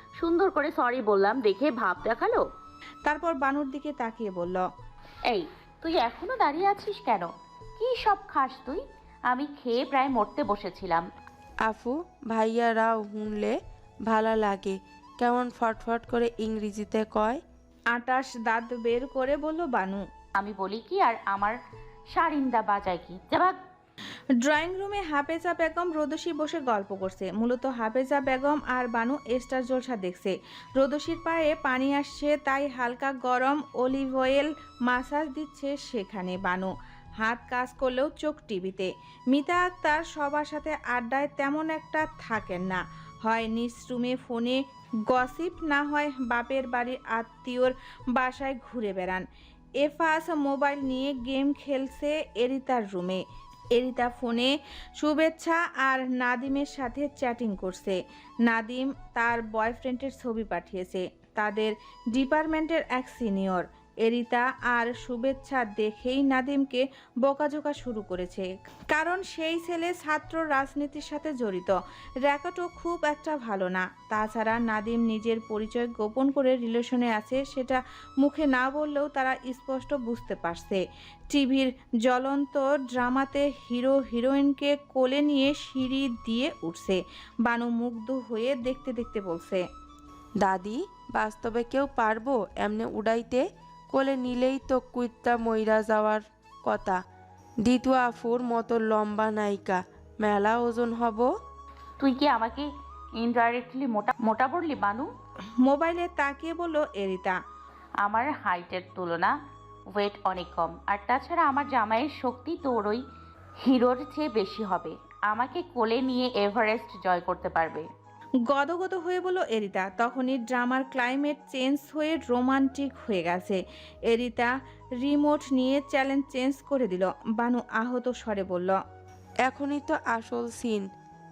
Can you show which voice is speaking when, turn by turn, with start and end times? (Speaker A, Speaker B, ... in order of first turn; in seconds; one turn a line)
Speaker A: 0.2-2.4
Speaker B: 3.1-4.6
Speaker A: 5.3-11.1
Speaker C: 11.7-17.4
Speaker B: 17.9-20.0
Speaker A: 20.4-21.6
Speaker A: 22.1-23.6
Speaker B: 24.4-36.7
Speaker B: 37.2-44.6
Speaker B: 45.1-49.2
Speaker B: 49.8-53.2
Speaker B: 53.8-71.8
Speaker B: 72.3-89.6
Speaker C: 90.4-97.0
Speaker C: 97.6-101.3
Speaker A: 102.0-105.1
Speaker B: 105.6-107.4
Speaker A: 108.0-109.3
Speaker A: 110.0-113.0
Speaker A: 113.6-117.8
Speaker B: 118.5-124.5
Speaker B: 125.0-128.8
Speaker C: 129.5-130.9